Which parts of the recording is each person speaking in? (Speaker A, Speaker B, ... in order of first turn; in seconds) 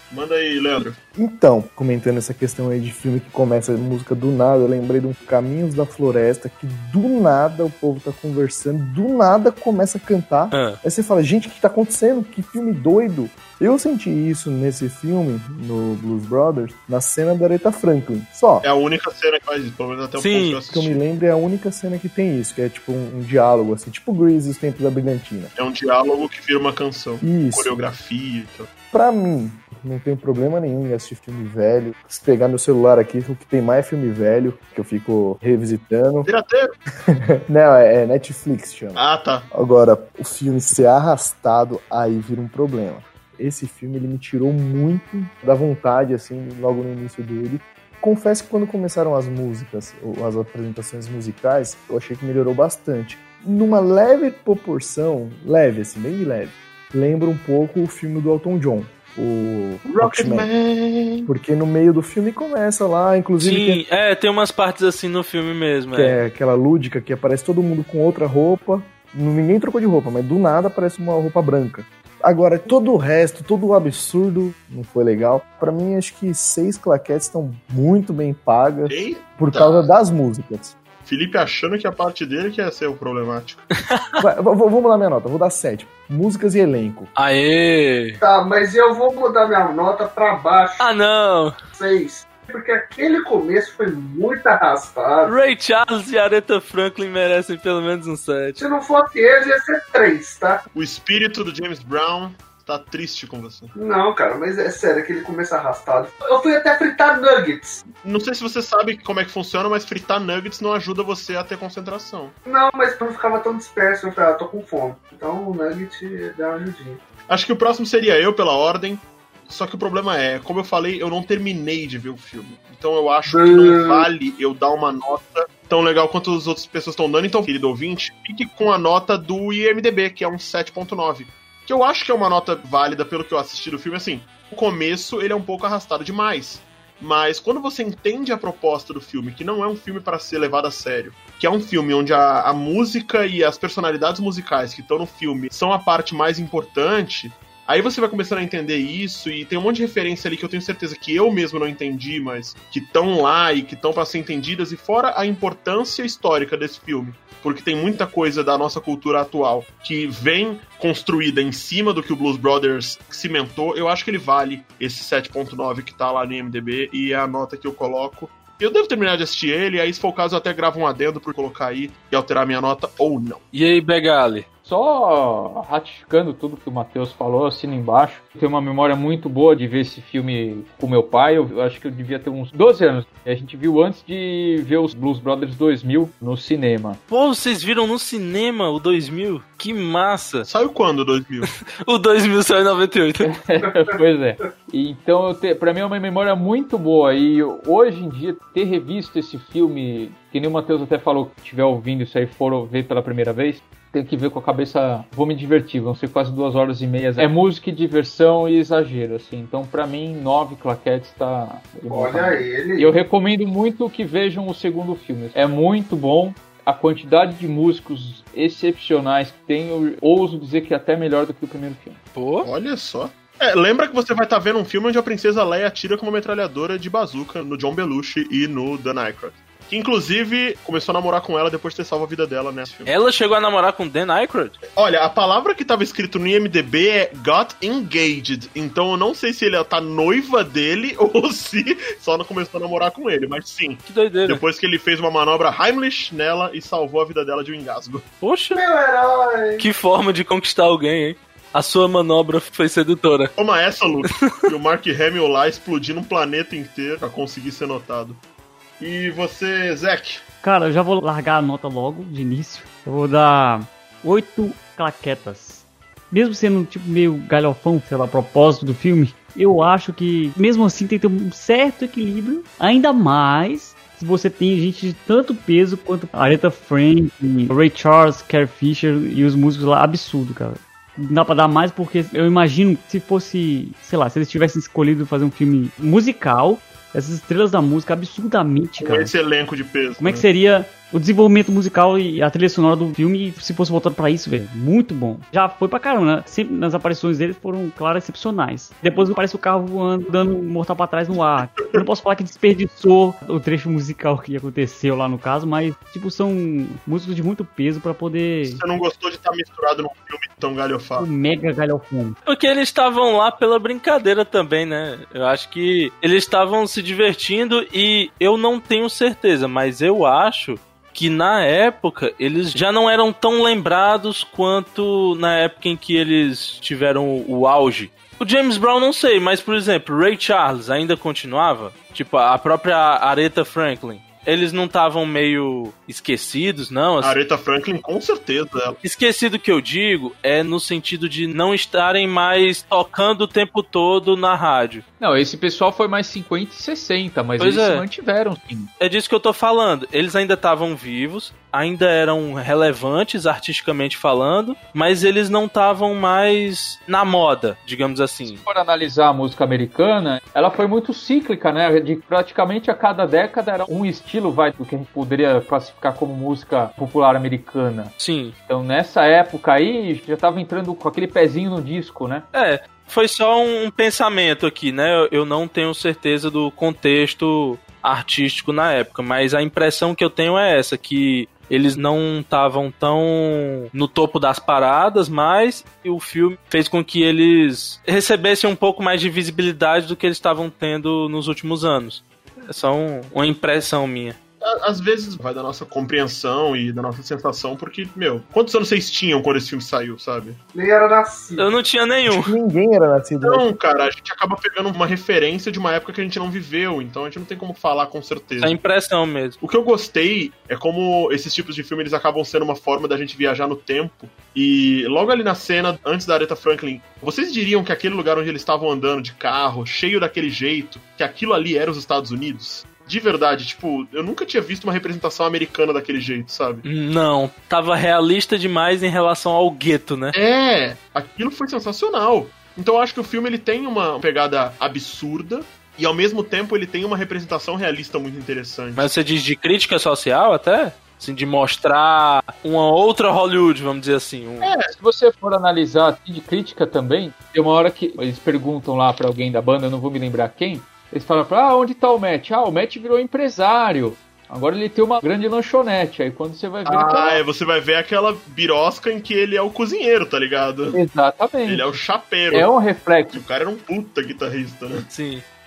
Speaker A: 0.1-1.0, 18.6-21.0, 25.6-28.7, 36.2-36.7, 39.0-39.5, 59.8-61.3, 78.9-79.9, 81.0-83.7, 100.7-103.7, 108.0-112.3, 117.3-173.4, 190.4-191.5, 222.4-232.9, 234.7-248.1, 253.4-258.2, 258.8-260.2, 288.8-290.3, 301.5-301.9, 308.4-311.1, 337.0-338.8, 394.4-400.4, 403.2-408.6, 409.4-426.6, 430.1-438.9, 444.4-444.7, 456.7-460.8, 461.4-462.5, 463.1-464.9
Speaker B: 1.1-18.7, 20.7-25.5, 27.2-27.7, 28.9-36.3, 37.1-60.5, 61.3-63.8, 65.9-80.8, 84.2-87.1, 402.1-403.5
Speaker C: 10.5-10.8, 20.2-20.6, 63.4-66.2, 83.9-84.2, 87.2-88.2, 90.8-91.5, 95.3-98.6, 173.5-174.5, 187.1-190.5, 191.5-193.3, 222.1-222.5, 232.9-234.6, 243.9-244.4, 248.2-248.6, 249.6-253.3, 254.1-254.4, 312.3-337.1, 338.8-344.8, 347.4-347.8, 348.8-358.4, 368.0-368.4, 372.3-394.2, 401.4-402.3, 408.4-409.4, 426.6-430.1, 438.8-444.5, 464.9-465.2
Speaker D: 88.2-90.8, 91.7-95.3, 98.6-100.6, 103.7-107.8, 112.5-117.0, 123.3-124.1, 211.9-212.9, 248.6-249.7, 400.5-401.5
Speaker E: 174.7-187.0, 193.2-222.0, 345.0-348.7, 358.3-367.9, 368.5-372.3, 444.8-457.2, 460.7-463.2
Speaker F: 260.4-289.1, 290.0-308.6, 311.0-312.2